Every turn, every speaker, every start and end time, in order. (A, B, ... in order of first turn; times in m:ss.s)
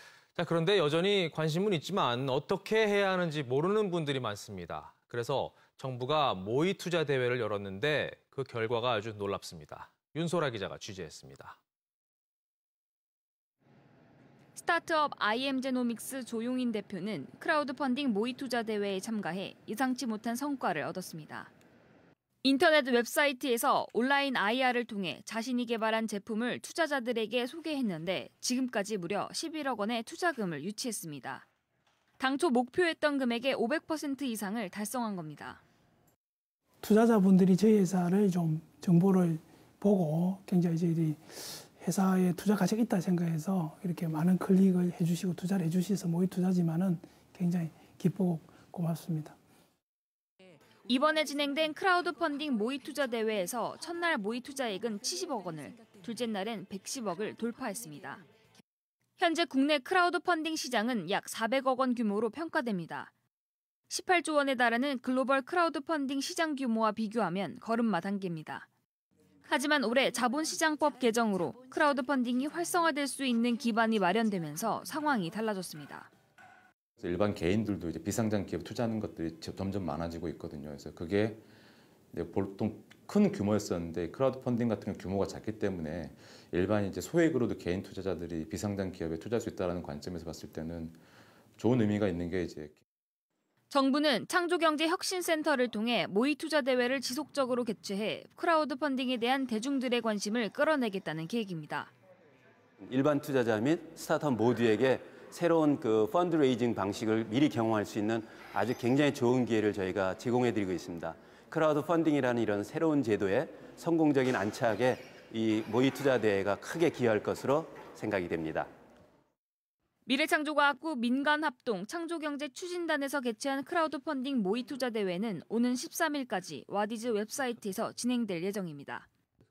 0:00.4-0:11.6 A
0:14.5-0:21.5 B
0:22.4-0:31.5 B
0:32.2-0:35.6 B
0:36.8-0:49.4 C
0:50.8-0:58.2 B
0:59.2-1:03.1 B
1:03.9-1:08.7 B
1:09.5-1:16.1 B
1:17.0-1:21.4 D
1:22.1-1:31.0 D
1:31.6-1:32.8 D
1:33.7-1:41.9 B
1:42.8-1:58.7 E
2:00.0-2:09.1 B